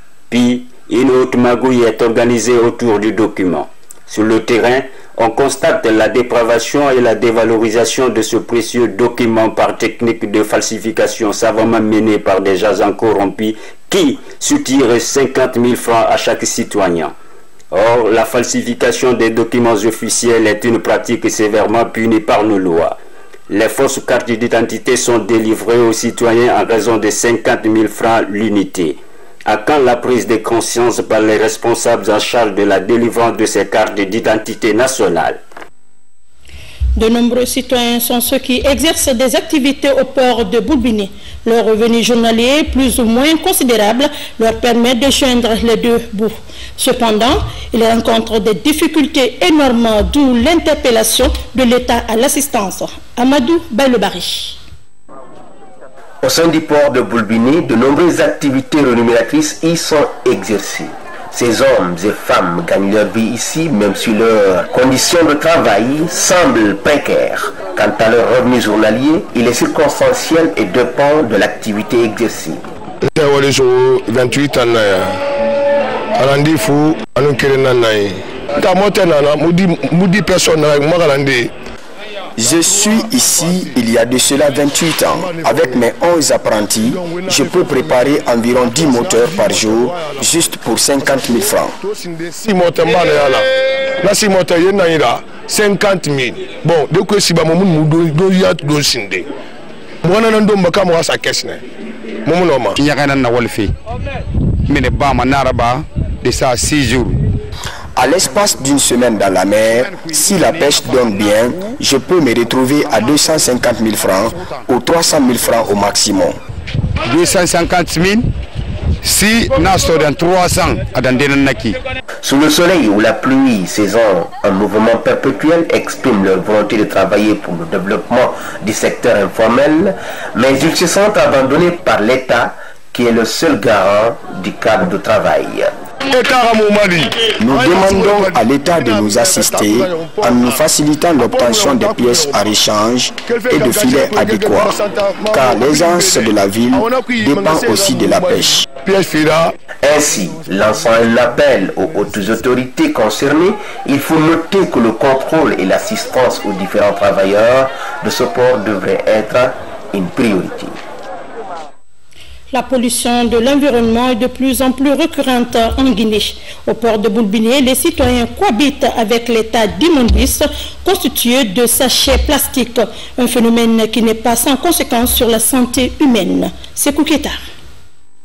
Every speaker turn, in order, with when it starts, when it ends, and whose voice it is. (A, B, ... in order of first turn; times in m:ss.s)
0:00.3-0:17.1 A
0:17.7-0:23.0 A
0:23.5-0:35.4 A
0:37.0-0:54.6 B
0:56.2-1:12.6 C
1:13.1-1:15.1 D
1:16.2-1:21.5 D
1:22.4-1:31.7 E
1:22.7-1:23.8 D
1:25.1-1:25.8 D
1:26.8-1:30.3 D
1:31.2-1:33.5 D
1:34.0-1:39.2 D
1:40.0-1:41.6 D
1:42.2-1:42.8 D
1:42.7-1:43.7 F
1:44.6-1:47.2 F
1:48.0-1:56.4 E
1:57.0-1:58.3 F
1:59.0-2:01.8 F
2:02.2-2:15.7 C
2:16.1-2:20.6 D
2:17.2-2:28.7 E
2:21.2-2:22.5 D
2:23.2-2:29.5 D
2:29.8-2:40.8 C
2:42.5-2:57.4 B